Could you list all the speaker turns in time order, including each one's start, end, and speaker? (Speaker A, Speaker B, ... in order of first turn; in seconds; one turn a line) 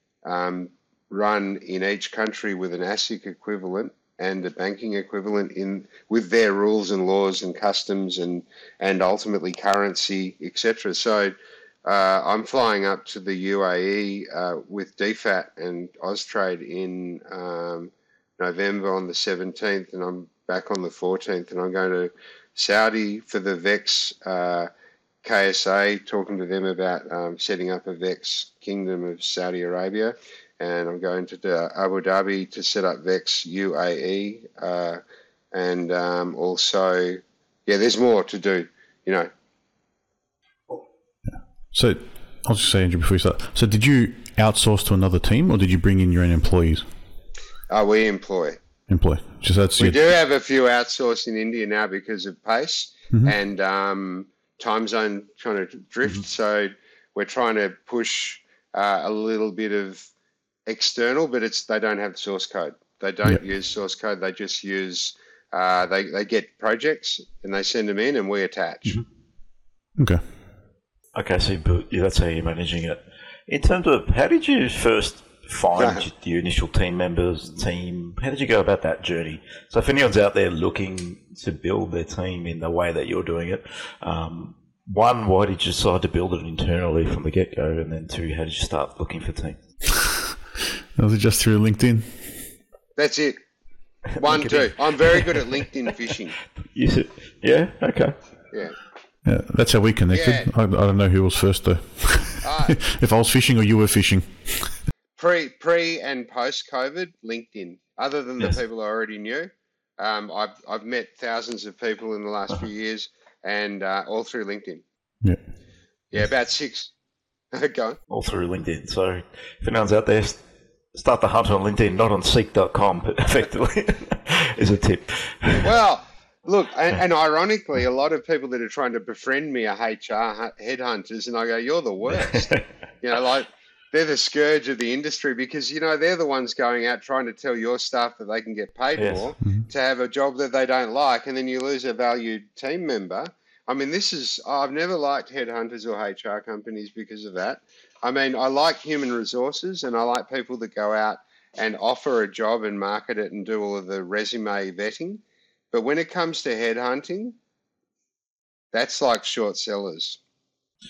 Speaker A: 0.2-24.7
Speaker A: 25.2-35.0
Speaker A: 35.5-39.3
Speaker B: 41.3-46.9
Speaker A: 47.7-48.6
Speaker B: 48.9-50.0
Speaker A: 49.8-60.1
Speaker A: 60.6-69.0
Speaker B: 70.0-70.2
Speaker C: 71.1-89.6
Speaker A: 75.8-76.0
Speaker B: 91.0-92.4
Speaker A: 93.0-93.4
Speaker C: 94.1-95.7
Speaker A: 94.2-96.4
Speaker C: 96.6-98.2
Speaker A: 98.5-98.8
Speaker B: 99.2-104.8
Speaker A: 100.1-100.5
Speaker A: 102.4-102.8
Speaker A: 105.2-114.8
Speaker A: 116.1-116.9
Speaker A: 117.5-118.0
Speaker C: 118.1-120.4
Speaker C: 120.9-125.7
Speaker A: 125.6-157.3
Speaker C: 132.1-132.7
Speaker C: 139.0-139.3
Speaker A: 158.7-160.2